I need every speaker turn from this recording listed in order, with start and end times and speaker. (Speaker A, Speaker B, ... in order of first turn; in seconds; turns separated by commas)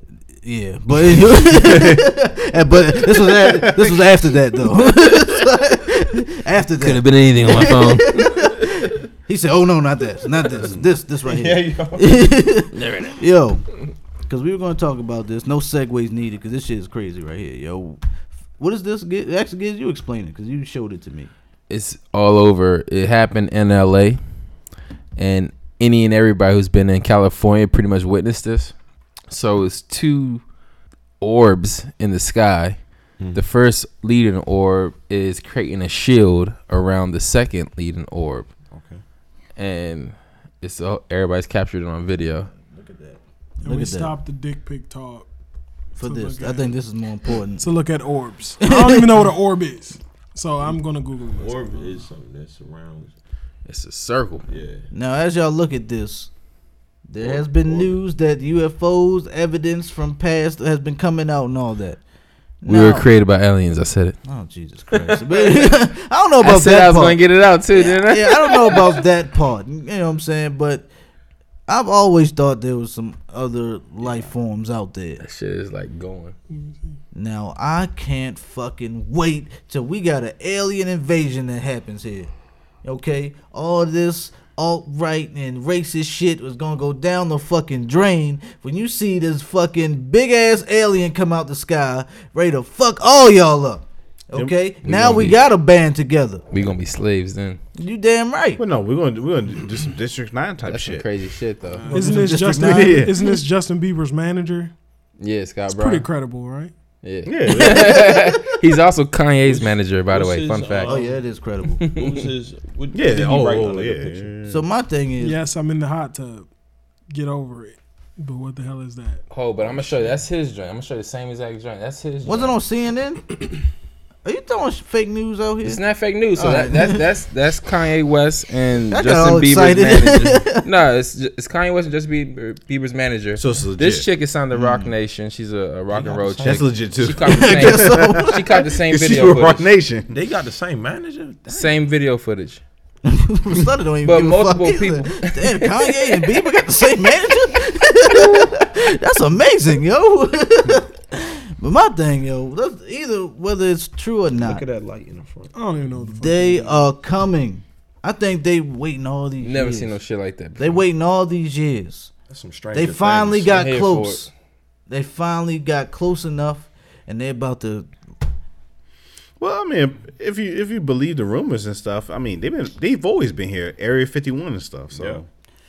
Speaker A: 0.4-13.6, Speaker B: 1.1-2.0, Speaker B: 3.2-4.1, Speaker C: 6.8-8.9, Speaker D: 10.7-12.3, Speaker C: 12.7-13.2, Speaker A: 14.3-18.0, Speaker A: 18.6-21.3, Speaker C: 21.7-24.2, Speaker C: 25.2-28.7, Speaker C: 29.3-30.4, Speaker C: 31.2-32.8, Speaker C: 33.3-38.5, Speaker D: 38.7-39.0, Speaker C: 39.5-42.5, Speaker D: 42.7-43.2, Speaker A: 43.6-44.1, Speaker E: 43.6-45.3, Speaker E: 45.9-46.7, Speaker A: 46.0-47.7, Speaker E: 47.6-52.0, Speaker A: 48.6-49.1, Speaker D: 51.2-53.1, Speaker C: 53.7-54.5, Speaker D: 54.5-54.9, Speaker A: 54.9-56.3, Speaker A: 57.1-62.0, Speaker D: 57.2-58.0, Speaker A: 62.6-63.1, Speaker C: 62.7-64.2, Speaker A: 64.2-67.2, Speaker C: 64.9-65.7, Speaker C: 66.4-69.0, Speaker A: 67.7-70.9, Speaker A: 71.7-75.2, Speaker C: 75.2-76.3, Speaker E: 76.5-76.9, Speaker A: 77.1-82.3, Speaker A: 82.8-96.5, Speaker D: 94.9-95.3, Speaker C: 94.9-95.3, Speaker C: 96.5-97.6, Speaker A: 97.8-98.6, Speaker B: 98.6-101.0, Speaker C: 100.6-101.9, Speaker E: 101.7-104.7, Speaker A: 101.9-103.1, Speaker B: 102.6-103.2, Speaker C: 105.2-106.0, Speaker E: 105.7-106.7, Speaker C: 107.0-111.0, Speaker B: 107.2-108.2, Speaker A: 107.5-108.3, Speaker D: 109.4-111.2, Speaker A: 110.8-111.8, Speaker C: 111.8-112.3, Speaker D: 111.9-114.3, Speaker B: 112.9-114.6, Speaker A: 114.5-115.4, Speaker E: 115.2-116.5, Speaker E: 117.1-119.2, Speaker C: 119.3-122.5, Speaker D: 119.6-120.2, Speaker A: 122.2-123.2, Speaker A: 124.2-125.8, Speaker C: 125.6-139.7, Speaker A: 126.3-127.0, Speaker A: 128.9-130.6, Speaker B: 133.3-134.1, Speaker A: 134.5-134.9, Speaker A: 136.2-136.5, Speaker B: 136.4-140.1, Speaker A: 137.2-138.5, Speaker D: 140.1-141.7, Speaker C: 141.5-142.6, Speaker A: 143.0-154.6, Speaker C: 144.0-146.1, Speaker D: 154.4-155.5, Speaker E: 155.5-156.9, Speaker A: 156.0-159.9, Speaker C: 159.4-160.8, Speaker A: 160.6-162.1, Speaker D: 162.3-163.7, Speaker A: 162.7-164.3, Speaker C: 163.5-164.3, Speaker A: 164.9-167.9, Speaker B: 169.4-175.3, Speaker D: 174.9-175.2